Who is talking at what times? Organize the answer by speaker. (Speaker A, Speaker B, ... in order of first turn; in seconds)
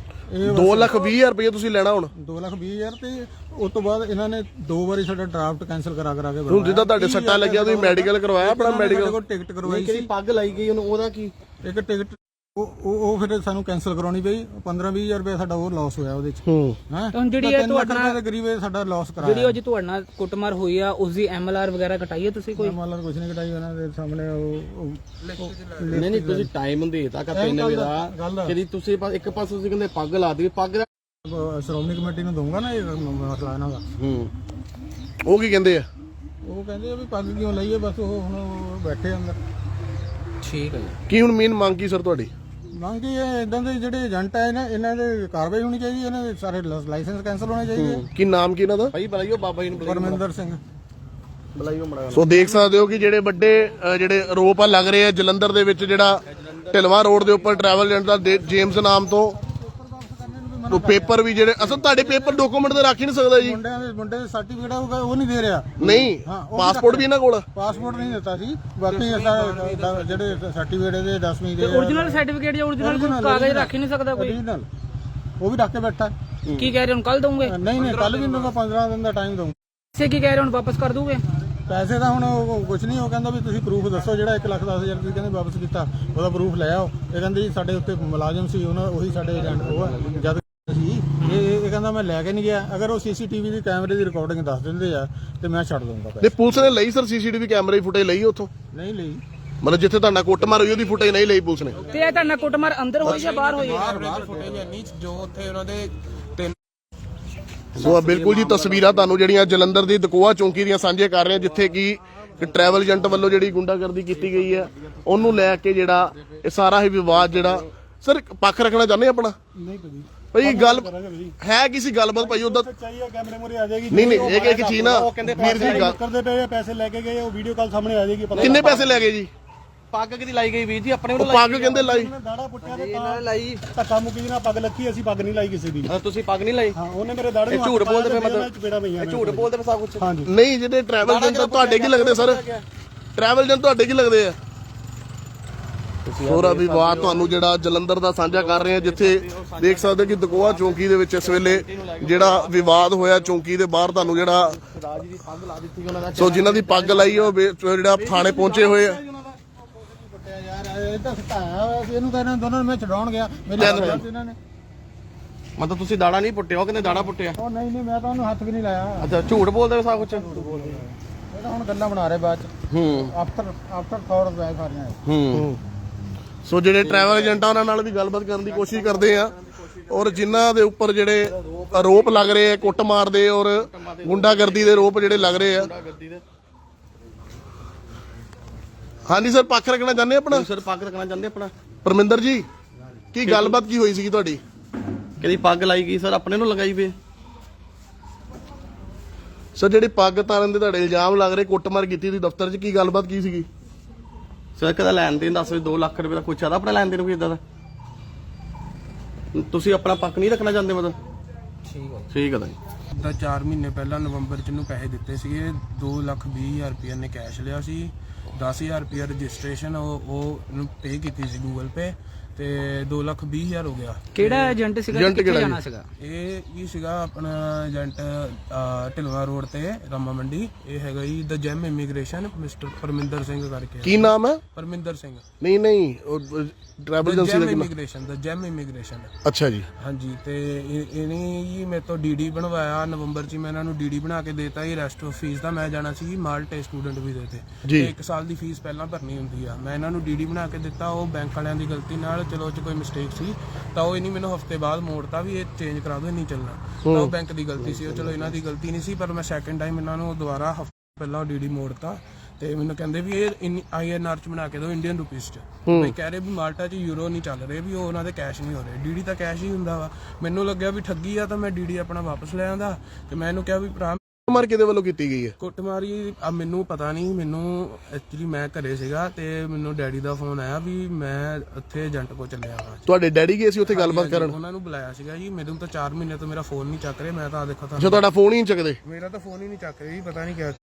Speaker A: 0.3-1.0, 2.1-10.1, 11.6-19.6, 22.5-26.5, 27.3-28.5, 31.2-33.8, 36.4-39.4, 42.8-48.0, 49.8-50.6, 59.4-62.7, 63.4-72.2, 72.8-74.7, 75.4-76.1, 77.4-79.5, 81.7-96.3, 98.7-99.2, 103.0-104.6, 158.7-164.4, 167.4-169.1, 169.9-175.0
Speaker B: 0.5-2.1, 6.5-9.2, 16.5-16.8, 35.2-35.9, 41.1-42.3, 48.1-48.9, 52.1-59.3, 60.7-63.6, 65.8-67.4, 96.2-98.5, 99.6-101.8, 107.8-119.3, 120.3-120.9, 121.4-122.7, 123.9-126.0, 128.4-129.3, 131.1-132.1, 140.2-142.4, 143.2-144.3, 146.2-154.5, 156.1-159.0, 163.6-163.9, 176.4-179.3, 179.9-185.7, 189.1-190.5, 191.8-192.4, 193.1-194.4, 199.6-203.5, 224.9-225.6, 233.8-234.4, 235.4-237.7, 239.2-239.7, 256.9-257.1, 265.7-265.9, 274.1-275.3, 282.9-284.4, 287.8-288.8
Speaker C: 9.6-11.3, 25.9-30.9, 34.0-34.3, 47.7-48.1, 48.9-50.2, 51.5-52.3, 56.3-58.0, 76.5-76.7, 107.7-109.2, 114.2-115.5, 124.3-125.9, 128.3-129.0, 129.9-131.8, 132.6-133.6, 135.8-136.8, 137.4-140.1, 141.0-142.6, 146.0-147.4, 148.2-153.4, 153.9-157.3, 157.9-158.9, 163.6-164.0, 165.6-167.4, 169.0-170.8, 172.7-173.1, 175.0-175.6, 176.8-177.6, 178.3-180.4, 181.2-182.9, 183.6-186.2, 190.3-191.5, 193.2-193.6, 195.2-196.9, 204.6-207.4, 209.3-210.9, 212.1-212.6, 257.6-258.4
Speaker D: 17.1-18.2, 19.2-22.8, 40.4-41.0, 71.6-74.4, 76.6-77.5, 79.9-81.2, 101.9-103.9, 211.8-212.0, 224.1-225.8
Speaker E: 25.2-26.0, 68.9-70.4, 77.7-78.5, 101.9-102.2, 103.0-106.5, 212.9-224.6, 226.0-235.2, 237.0-239.1, 239.8-274.2, 275.4-282.8, 283.7-288.0, 288.8-290.6
Speaker F: 119.5-121.3, 122.2-128.9, 131.5-135.9, 136.8-140.3